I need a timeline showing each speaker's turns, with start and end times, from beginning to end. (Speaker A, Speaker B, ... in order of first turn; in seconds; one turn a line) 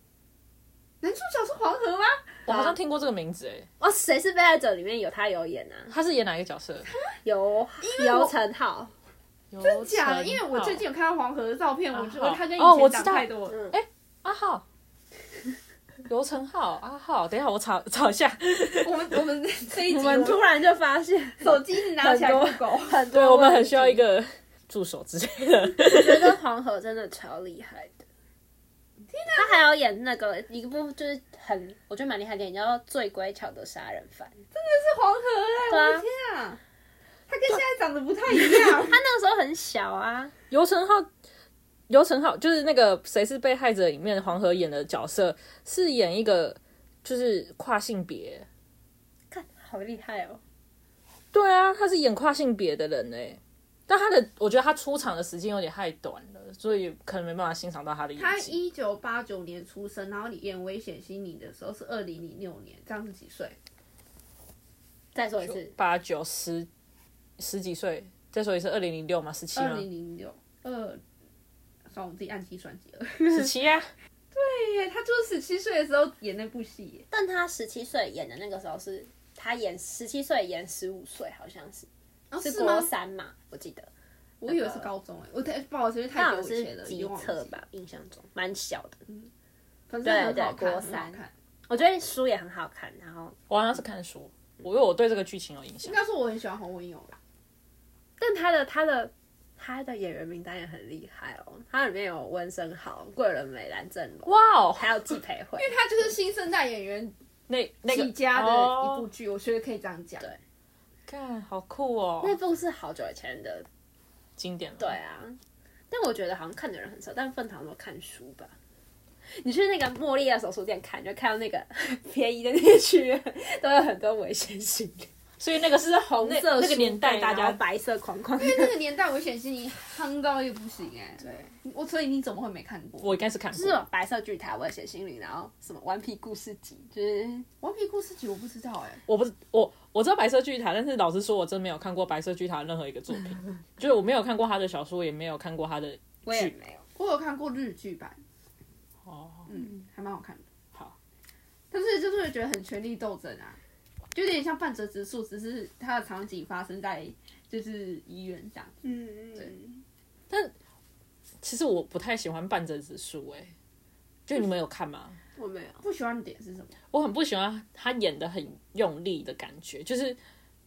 Speaker A: 1.0-2.7
Speaker B: 2.5-3.7
Speaker C: 3.8-5.9
Speaker B: 5.9-6.9
Speaker C: 7.2-8.9
Speaker A: 7.8-8.3
Speaker B: 9.5-10.8
Speaker A: 9.6-13.6
Speaker B: 11.9-14.6
Speaker C: 13.5-13.8
Speaker B: 16.1-18.9
Speaker A: 18.8-20.5
Speaker C: 19.9-24.0
Speaker A: 21.4-23.0
Speaker B: 23.1-26.4
Speaker C: 25.8-28.0
Speaker A: 29.1-29.6
Speaker C: 29.3-34.4
Speaker A: 34.5-36.6
Speaker C: 35.7-36.0
Speaker A: 37.3-39.0
Speaker C: 38.5-40.3
Speaker B: 40.5-41.1
Speaker B: 41.9-48.5
Speaker C: 49.3-50.4
Speaker B: 51.3-58.5
Speaker A: 58.2-63.6
Speaker C: 65.1-65.7
Speaker B: 65.4-66.7
Speaker B: 67.4-69.8
Speaker A: 69.5-71.0
Speaker A: 71.9-73.4
Speaker B: 73.2-73.9
Speaker A: 74.3-77.0
Speaker C: 77.1-81.9
Speaker A: 82.3-82.9
Speaker C: 82.4-83.9
Speaker A: 84.4-87.5
Speaker C: 84.4-84.9
Speaker C: 86.1-89.0
Speaker A: 89.9-91.3
Speaker C: 90.0-93.3
Speaker B: 93.5-96.0
Speaker A: 95.8-97.2
Speaker C: 98.2-105.7
Speaker B: 104.2-105.0
Speaker A: 105.6-107.1
Speaker B: 107.5-109.0
Speaker A: 107.8-110.3
Speaker B: 111.1-112.4
Speaker C: 112.2-113.7
Speaker B: 114.4-115.0
Speaker C: 114.8-115.4
Speaker C: 115.9-118.5
Speaker C: 119.3-125.1
Speaker B: 125.4-127.6
Speaker C: 125.9-128.7
Speaker A: 128.3-133.2
Speaker C: 131.2-131.5
Speaker B: 133.0-133.8
Speaker C: 133.5-137.5
Speaker A: 137.6-139.0
Speaker B: 139.1-146.5
Speaker C: 146.2-146.8
Speaker A: 146.9-148.2
Speaker B: 149.1-149.5
Speaker A: 149.5-150.4
Speaker A: 151.7-153.6
Speaker A: 154.1-158.8
Speaker C: 158.8-159.8
Speaker B: 161.4-163.5
Speaker B: 164.3-165.2
Speaker C: 165.4-165.8
Speaker A: 165.8-166.7
Speaker B: 166.9-170.2